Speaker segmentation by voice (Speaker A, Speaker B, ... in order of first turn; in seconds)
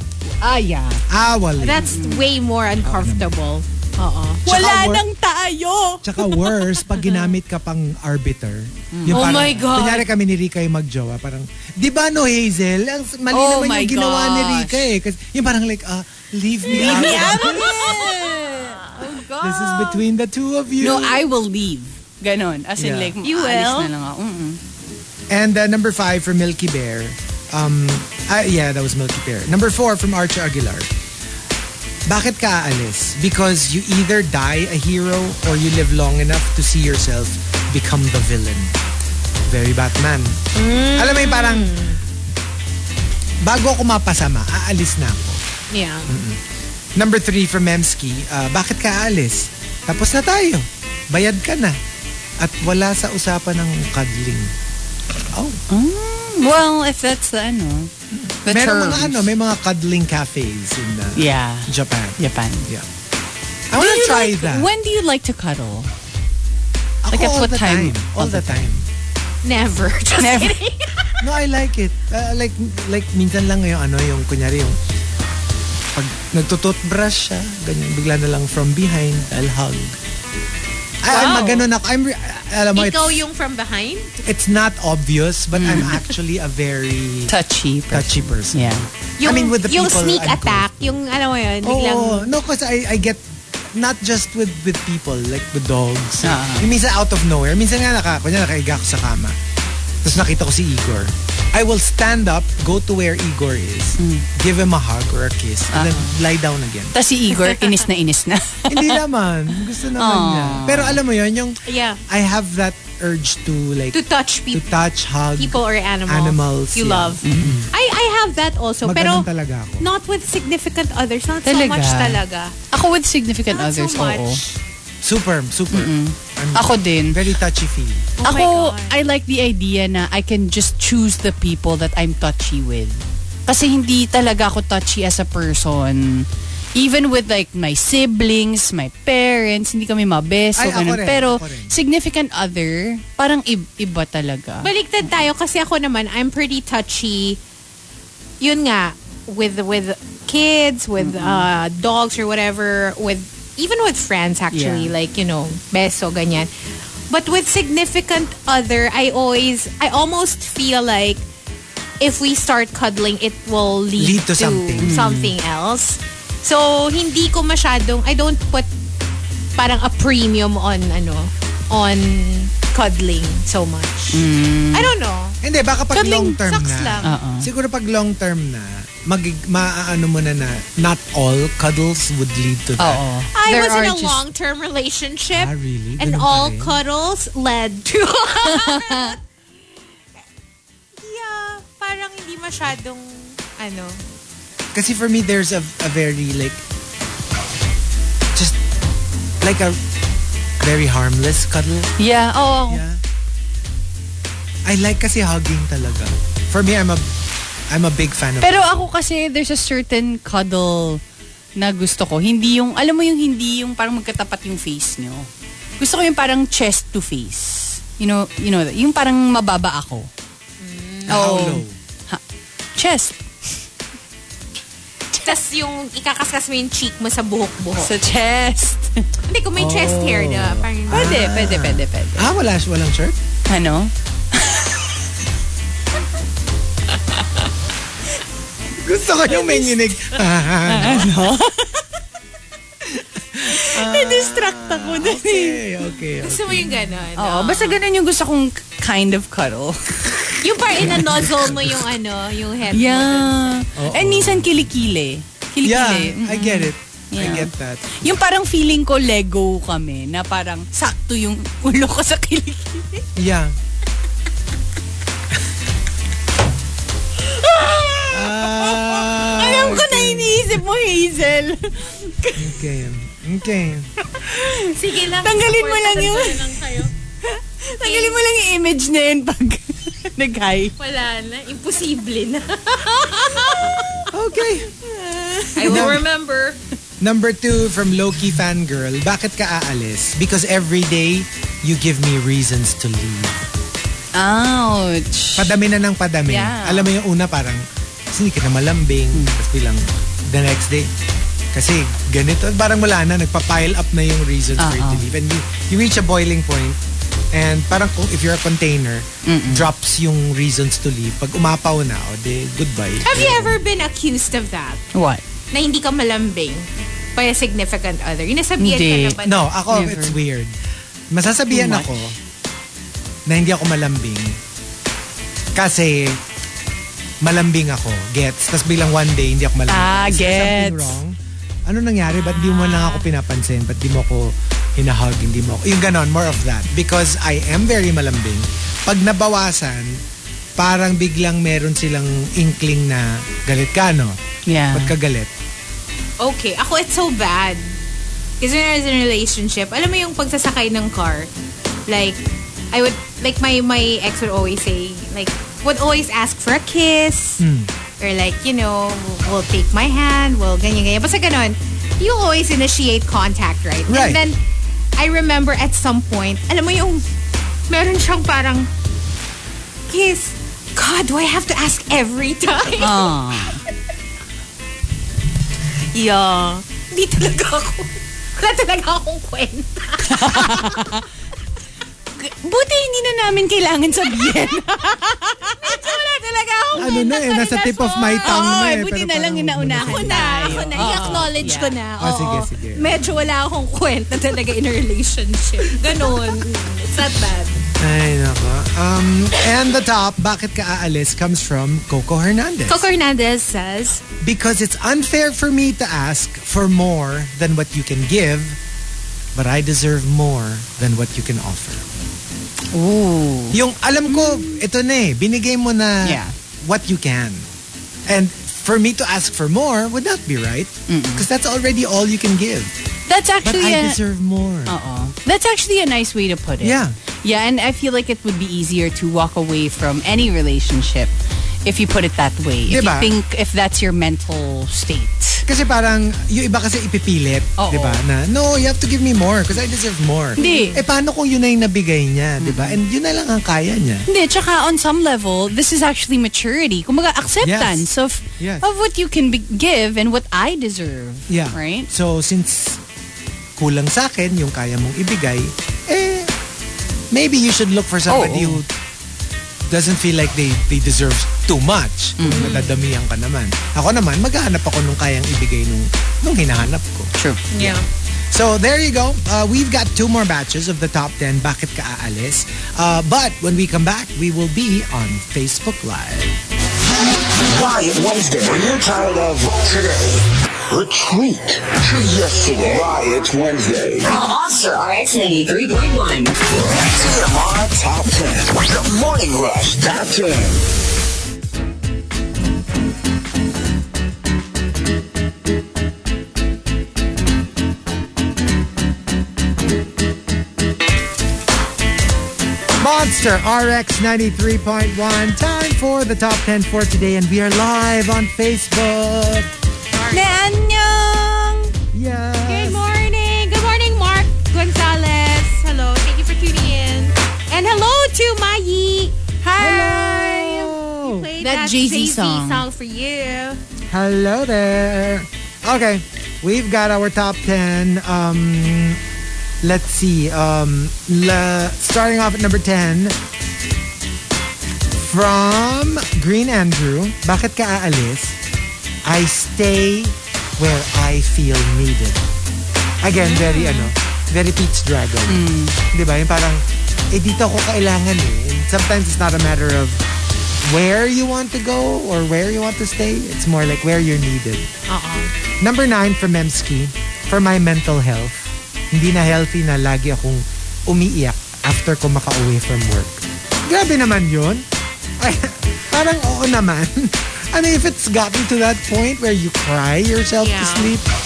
Speaker A: 0.3-1.0, 1.8-2.3, 4.5-7.3, 8.9-10.0, 13.3-14.9, 16.7-20.0, 20.8-24.6, 55.7-57.9, 58.5-59.3, 61.2-62.7, 63.8-65.9, 67.1-68.7, 70.2-70.6, 85.5-86.2, 87.3-88.9, 96.2-96.7, 104.0-104.3, 105.7-106.1, 106.9-109.0, 109.6-111.0, 117.2-117.6, 121.5-122.2, 122.7-124.4, 125.7-127.2, 128.2-144.7, 151.0-151.5, 154.5-154.9, 164.8-165.3, 174.1-174.9, 177.0-177.5, 182.8-184.2, 188.4-189.2, 202.0-202.8, 208.4-211.0, 211.6-220.1, 221.1-222.2, 222.8-223.2, 227.8-229.1, 230.9-232.3, 233.5-234.9, 240.7-241.8, 243.3-245.6, 247.2-251.5, 252.7-263.1, 267.3-272.6, 274.2-276.6, 277.3-280.7, 285.1-286.0, 294.1-295.5, 296.3-296.9, 299.1-299.4, 304.6-305.1, 309.3-309.7, 314.9-315.2, 318.6-319.2, 319.7-320.2, 321.5-321.9, 329.7-331.0, 344.5-344.9, 372.8-373.6, 380.1-381.1, 382.2-385.8, 388.2-391.8, 412.7-414.6, 416.0-416.3, 420.9-421.3, 423.1-424.0, 424.7-431.1, 431.6-435.4, 437.6-438.0, 440.4-440.8, 442.4-442.8, 444.1-451.9, 458.1-458.6, 462.2-462.6, 467.2-467.4, 510.1-511.7, 519.5-520.7, 521.4-522.6, 545.3-545.8
Speaker B: 1.1-1.9, 2.8-3.3, 4.5-5.0, 6.0-17.9, 19.4-21.2, 22.8-23.1, 25.3-30.9, 32.0-38.8, 39.5-40.4, 41.0-41.7, 43.4-45.4, 46.1-46.4, 47.0-51.8, 52.4-54.5, 55.3-55.6, 58.1-62.9, 63.7-64.7, 67.0-68.9, 71.2-74.8, 75.9-80.0, 81.0-83.2, 84.2-87.3, 87.9-90.9, 91.6-99.3, 100.0-107.0, 108.7-114.0, 114.5-117.7, 118.8-119.9, 125.0-128.1, 140.6-141.8, 164.0-164.9, 175.4-183.0, 185.3-186.8, 194.7-196.6, 198.3-198.6, 199.4-199.8, 200.6-201.9, 202.7-203.0, 204.7-207.1, 207.7-208.7, 221.1-221.8, 229.6-233.2, 238.8-241.1, 242.8-246.9, 251.3-251.6, 253.8-254.7, 255.6-258.0, 263.2-263.6, 268.1-270.5, 272.4-273.9, 284.1-284.7, 285.6-286.1, 287.0-293.5, 295.4-300.9, 301.5-306.8, 307.3-313.6, 319.2-320.6, 321.1-322.2, 323.3-324.4, 325.6-326.2, 327.2-331.1, 331.7-340.0, 340.6-344.2, 344.7-345.3, 357.4-357.7, 363.9-364.2, 386.7-392.9, 397.8-402.8, 404.2-408.6, 409.3-411.8, 413.5-417.5, 418.1-422.7, 423.4-424.7, 426.6-427.0, 432.7-433.1, 435.5-444.1, 447.4-447.9, 448.4-448.6, 451.3-452.8, 453.6-456.3, 457.1-458.7, 459.7-467.8, 468.3-476.4, 502.8-509.6, 511.9-512.9, 519.6-521.3, 523.9-529.0, 529.6-533.2, 535.0-538.4, 539.0-542.2, 543.0-550.0, 550.6-554.7, 555.6-564.6, 565.2-571.1
Speaker C: 1.6-4.5, 9.1-9.9, 16.8-17.7, 23.2-23.9, 40.5-42.0, 45.7-46.1, 69.4-71.2, 81.1-81.7, 82.7-84.2, 89.2-92.3, 111.6-112.0, 113.9-114.6, 115.3-119.3, 119.8-122.5, 123.5-124.5, 128.2-129.0, 144.6-147.4, 148.4-156.5, 157.1-161.3, 162.0-168.7, 169.6-175.4, 175.9-177.1, 183.3-189.2, 191.0-194.0, 220.6-221.2, 225.2-227.9, 229.3-231.3, 239.3-239.7, 246.2-247.8, 250.4-253.6, 274.7-276.9, 277.8-278.2, 280.8-284.1, 285.5-286.6, 313.0-314.8, 315.5-319.5, 346.2-347.7, 348.4-351.3, 351.9-352.2, 352.7-357.4, 358.0-364.4, 365.0-367.0, 367.7-368.7, 369.9-373.2, 375.9-380.9, 385.2-388.6, 389.8-397.6, 402.7-404.0, 440.4-440.8, 462.2-462.7, 467.5-467.9, 509.9-510.4, 512.5-520.0, 521.0-523.6, 543.1-543.9, 554.9-555.3, 570.4-571.0
Speaker D: 477.3-484.1, 486.6-490.6
Speaker E: 484.1-486.3